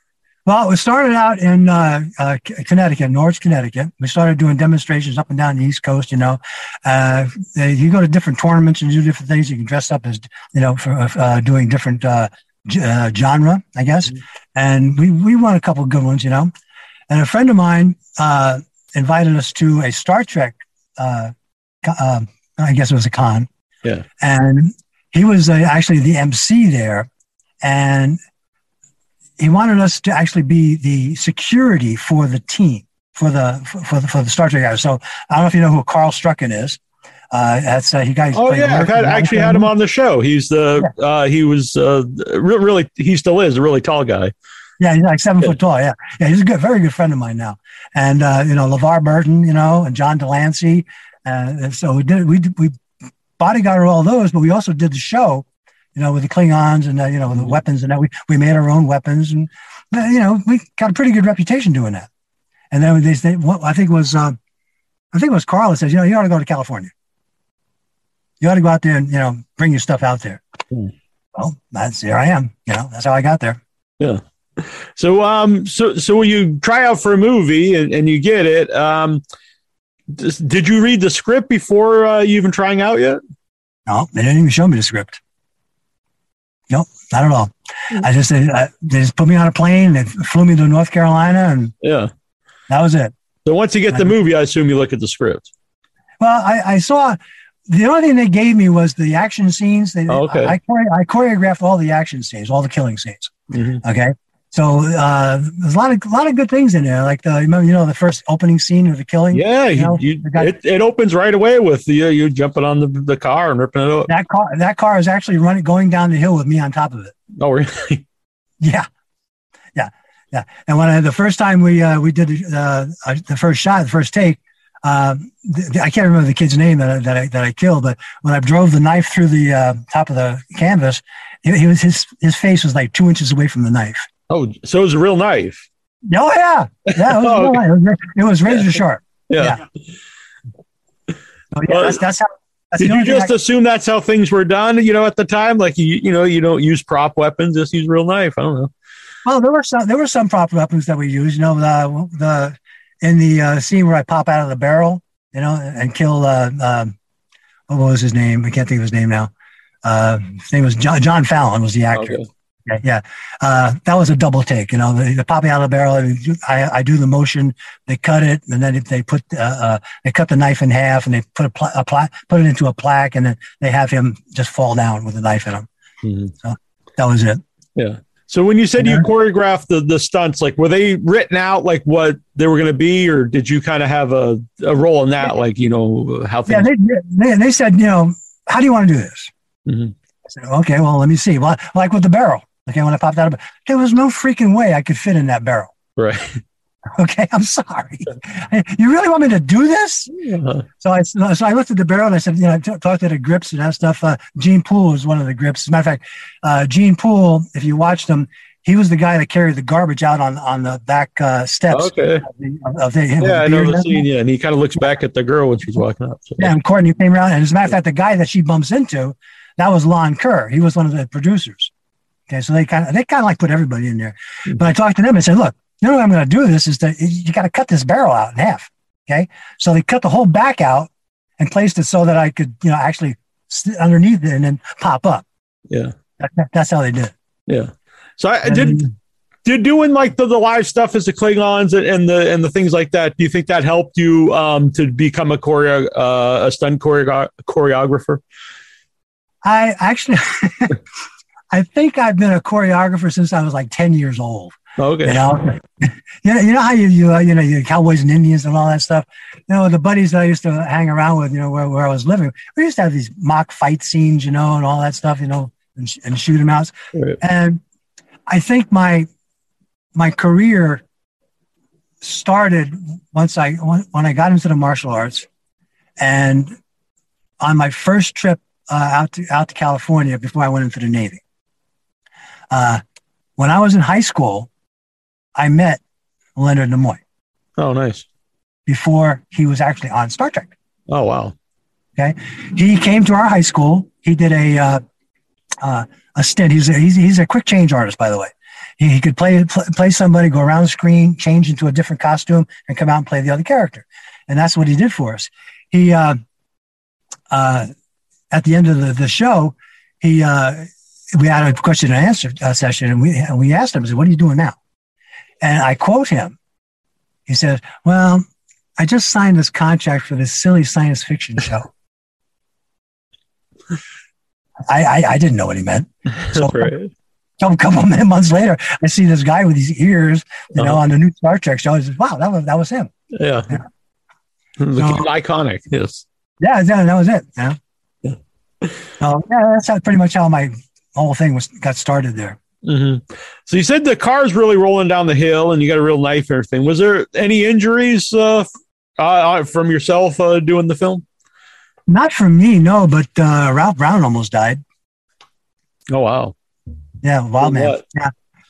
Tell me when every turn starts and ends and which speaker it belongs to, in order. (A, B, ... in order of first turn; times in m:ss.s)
0:00.5-0:16.5 A
0:17.1-0:21.3 A
0:21.8-0:23.5 A
0:24.2-0:27.1 A
0:27.6-0:28.2 A
0:29.4-0:36.8 A
0:37.3-0:39.7 A
0:38.3-0:44.3 B
0:44.8-0:52.7 A
0:53.4-1:02.1 A
1:02.7-1:04.4 A
1:05.1-1:06.9 A
1:08.4-1:10.4 A
1:11.4-1:13.6 A
1:14.0-1:19.2 B
1:20.1-1:23.2 B
1:23.9-1:25.2 A
1:26.7-1:31.7 A
1:31.8-1:32.1 B
1:32.7-1:33.1 A
1:33.4-1:35.5 B
1:36.2-1:37.2 A
1:37.7-1:50.5 A
1:40.1-1:40.6 B
1:43.5-1:43.8 B
1:49.3-1:54.1 B
1:54.1-1:57.2 A
1:57.4-1:58.0 B
1:58.6-1:58.9 A
1:59.8-2:14.0 A
2:14.3-2:15.7 B
2:16.1-2:19.6 A
2:17.0-2:17.6 B
2:19.3-2:19.6 B
2:21.5-2:23.3 A
2:21.7-2:22.0 B
2:22.8-2:28.7 B
2:29.2-2:36.9 A
2:37.7-2:39.3 A
2:39.8-2:55.7 A
2:41.9-2:42.3 B
2:56.0-2:56.3 B
2:56.4-2:57.4 A
2:57.8-3:06.7 B
2:58.8-2:59.1 A
3:06.5-3:09.3 A
3:09.7-3:09.9 B
3:10.3-3:15.7 A
3:16.0-3:16.4 B
3:17.0-3:20.1 A
3:20.2-3:20.6 B
3:20.8-3:34.0 A
3:31.7-3:32.2 B
3:33.2-3:36.5 B
3:36.4-3:41.7 A
3:42.3-3:55.2 A
3:55.7-3:56.0 B
3:56.2-3:57.1 A
3:57.5-3:58.8 B
3:58.5-3:58.9 A
3:59.4-4:08.2 B
4:09.4-4:10.8 A
4:11.5-4:27.6 A
4:14.8-4:15.2 B
4:28.3-4:29.1 A
4:30.0-4:30.8 A
4:32.0-4:35.3 A
4:36.0-4:36.6 A
4:37.4-4:41.2 A
4:42.5-4:42.8 A
4:43.4-4:44.5 A
4:45.4-4:45.8 A
4:46.4-4:47.0 A
4:47.6-4:48.1 B
4:48.7-4:50.5 A
4:50.9-4:51.4 B
4:52.0-4:54.8 A
4:55.6-5:06.2 A
5:07.3-5:07.7 A
5:08.3-5:14.6 A
5:15.4-5:16.4 A
5:17.3-5:18.3 A
5:18.8-5:21.7 A
5:24.7-5:26.7 A
5:26.2-5:26.9 B
5:27.4-5:32.9 A
5:33.1-5:33.5 B
5:34.6-5:36.0 B
5:34.8-5:35.0 A
5:36.4-5:37.6 A
5:38.0-5:38.8 B
5:39.0-5:42.4 A
5:42.6-5:51.0 B
5:51.9-5:54.6 A
5:55.9-5:56.4 B
5:57.0-5:58.1 A
5:57.4-5:57.8 B